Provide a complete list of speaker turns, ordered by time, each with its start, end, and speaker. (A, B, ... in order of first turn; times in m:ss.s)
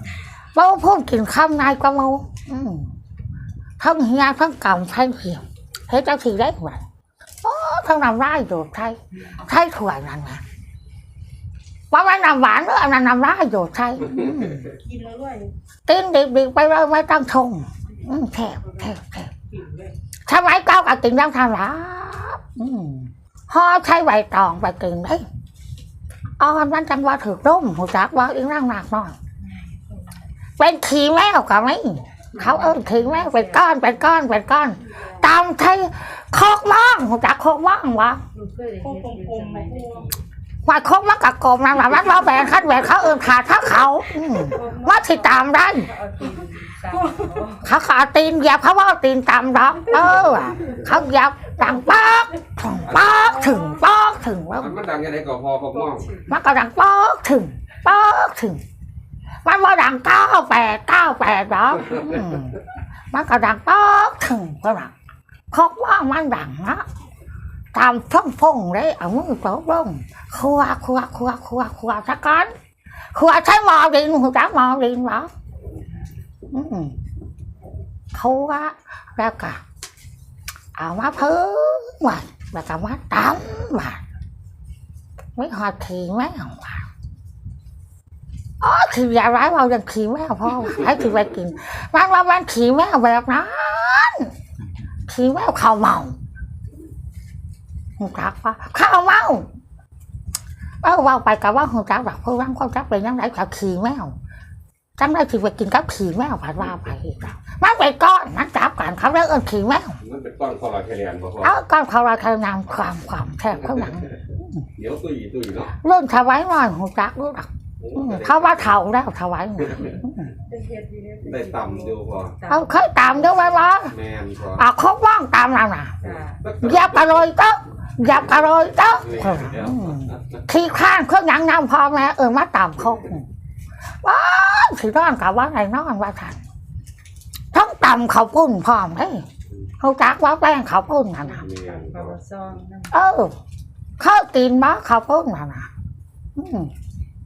0:00.5-0:02.9 A
0:03.8-0:06.8 A
0:07.4-0:10.4 A
0:11.9-0:14.7 A
0:14.8-0:15.5 B
0:15.8-0:19.3 A
0:19.5-0:19.9 B
0:20.3-0:25.2 A
0:26.4-0:29.2 A
0:30.6-0:38.2 A
0:38.4-0:40.0 C
0:38.4-0:40.1 B
0:40.6-0:45.9 A
0:44.5-0:45.3 B
0:46.0-0:47.5 C
0:46.1-0:47.6 B
0:47.6-0:54.7 A
0:54.6-0:56.1 D
0:56.2-0:58.6 A
0:59.4-1:04.9 A
1:05.5-1:06.8 A
1:07.7-1:12.5 A
1:13.1-1:15.3 A
1:16.5-1:17.0 A
1:18.1-1:19.6 A
1:20.8-1:24.0 A
1:25.4-1:26.9 A
1:28.6-1:34.3 A
1:35.1-1:36.2 A
1:38.0-1:39.5 A
1:40.8-1:44.1 A
1:45.0-1:50.0 A
1:50.0-1:51.6 D
1:51.4-1:54.6 A
1:54.8-1:55.7 D
1:55.8-2:00.3 A
1:57.8-1:58.8 D
2:00.5-2:02.0 B
2:01.2-2:02.3 D
2:02.5-2:03.9 A
2:03.9-2:04.7 D
2:04.5-2:06.0 A
2:06.2-2:07.2 D
2:06.6-2:13.2 A
2:09.0-2:10.1 D
2:14.0-2:16.4 A
2:17.5-2:19.2 A
2:19.8-2:21.5 A
2:21.4-2:22.2 D
2:21.9-2:22.8 C
2:22.9-2:23.3 A
2:24.0-2:25.7 A
2:26.4-2:26.7 A